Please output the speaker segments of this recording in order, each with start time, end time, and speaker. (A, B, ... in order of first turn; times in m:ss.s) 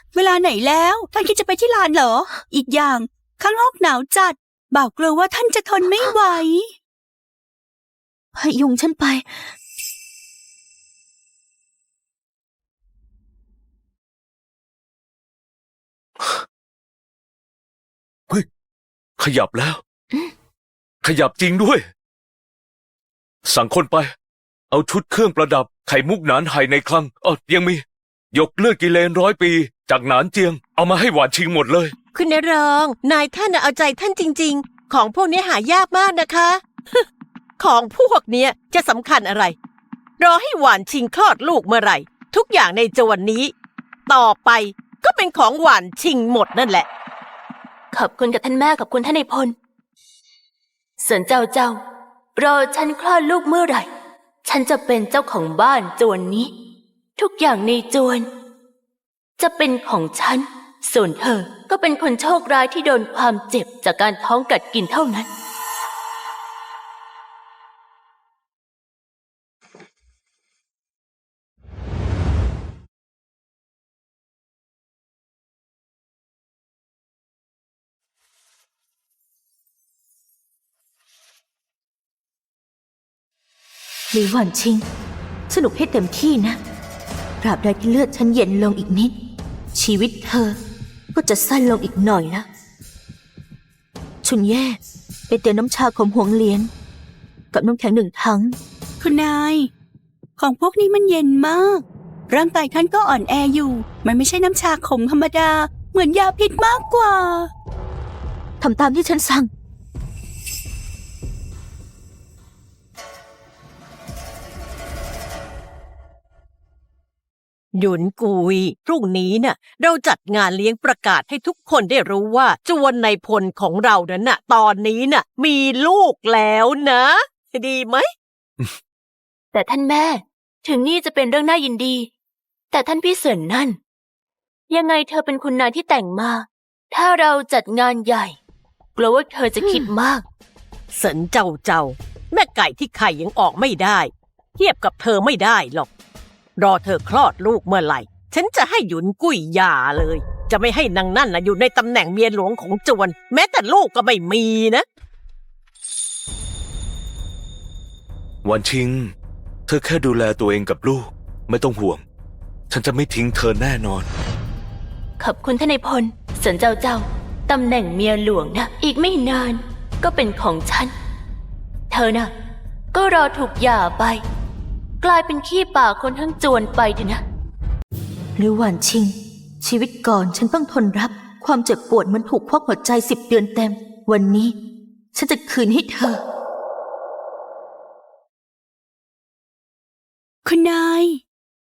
0:00.1-0:06.7 A
0:08.3-0:09.3 B
0:19.2-0:19.8 C
0:21.0-0:21.8 C
0:23.4-0:24.1 C
0:24.7-0:31.9 C
0:32.1-0:37.0 D
0:37.6-0:39.5 D
0:40.2-0:43.5 D
0:44.1-0:46.9 D
0:47.9-0:49.5 E
0:51.0-0:51.8 E
0:52.4-0:53.9 E
0:54.4-0:56.5 E
0:57.2-0:58.3 E
0:59.4-1:05.3 E
1:24.1-1:24.8 B
1:25.5-1:26.6 B
1:27.4-1:29.1 B
1:29.7-1:30.6 B
1:31.1-1:32.4 B
1:34.2-1:36.7 B
1:37.5-1:38.6 B
1:39.0-1:39.7 A
1:40.4-1:47.5 A
1:48.6-1:49.5 B
1:57.8-2:08.1 D
2:09.5-2:12.1 E
2:12.7-2:13.8 E
2:14.7-2:18.4 E
2:19.0-2:20.2 E
2:19.6-2:19.9 B
2:20.9-2:25.9 D
2:26.6-2:34.8 D
2:38.4-2:39.1 C
2:39.7-2:42.0 C
2:42.7-2:44.1 C
2:45.2-2:50.9 E
2:51.9-2:52.3 E
2:52.9-2:54.2 E
2:55.0-2:57.2 E
2:58.4-3:04.5 B
3:05.1-3:06.2 B
3:10.4-3:11.2 A